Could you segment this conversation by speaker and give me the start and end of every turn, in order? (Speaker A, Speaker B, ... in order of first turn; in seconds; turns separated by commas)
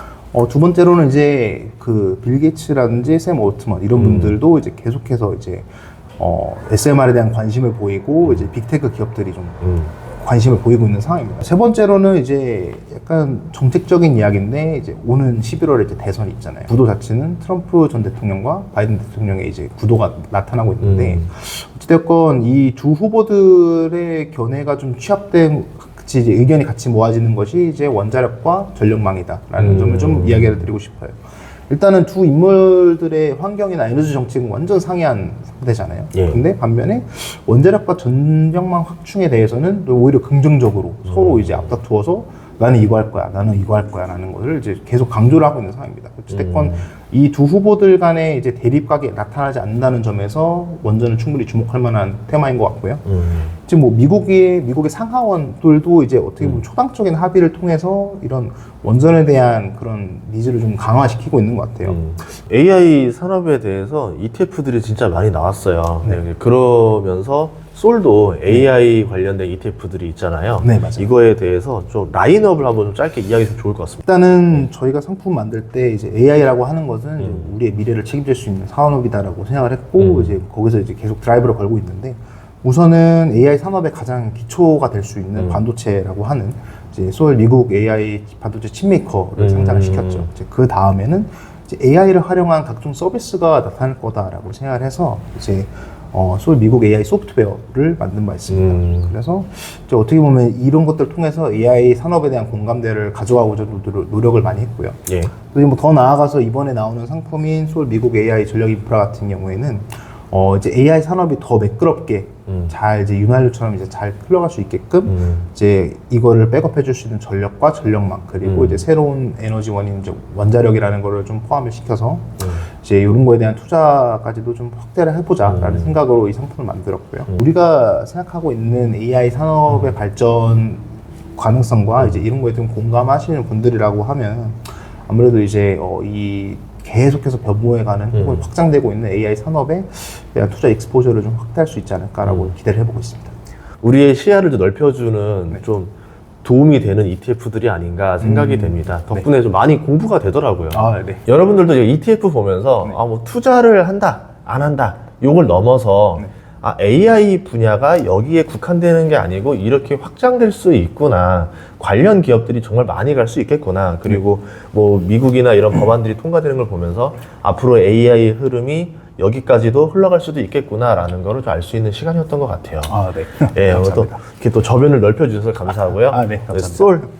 Speaker A: 0.3-53.0, Speaker B: 4.0-4.4, Speaker B: 9.6-9.9, Speaker B: 20.8-21.3, Speaker B: 29.6-30.6, Speaker B: 36.1-36.4, Speaker B: 41.0-41.7, Speaker B: 46.3-46.9, Speaker B: 53.0-53.5, Speaker A: 53.6-62.0, Speaker B: 61.8-74.0, Speaker A: 70.6-71.1, Speaker A: 74.0-143.3, Speaker B: 80.0-80.4, Speaker B: 89.4-90.3, Speaker B: 98.5-99.1, Speaker B: 105.1-105.3, Speaker B: 115.0-115.5, Speaker B: 118.4-118.8, Speaker B: 125.4-125.9, Speaker B: 138.1-138.4, Speaker B: 142.2-142.5, Speaker B: 143.8-145.9, Speaker B: 146.4-172.9, Speaker A: 148.2-149.2, Speaker A: 150.7-151.2, Speaker A: 172.9-174.2, Speaker B: 173.5-177.1, Speaker A: 175.7-177.0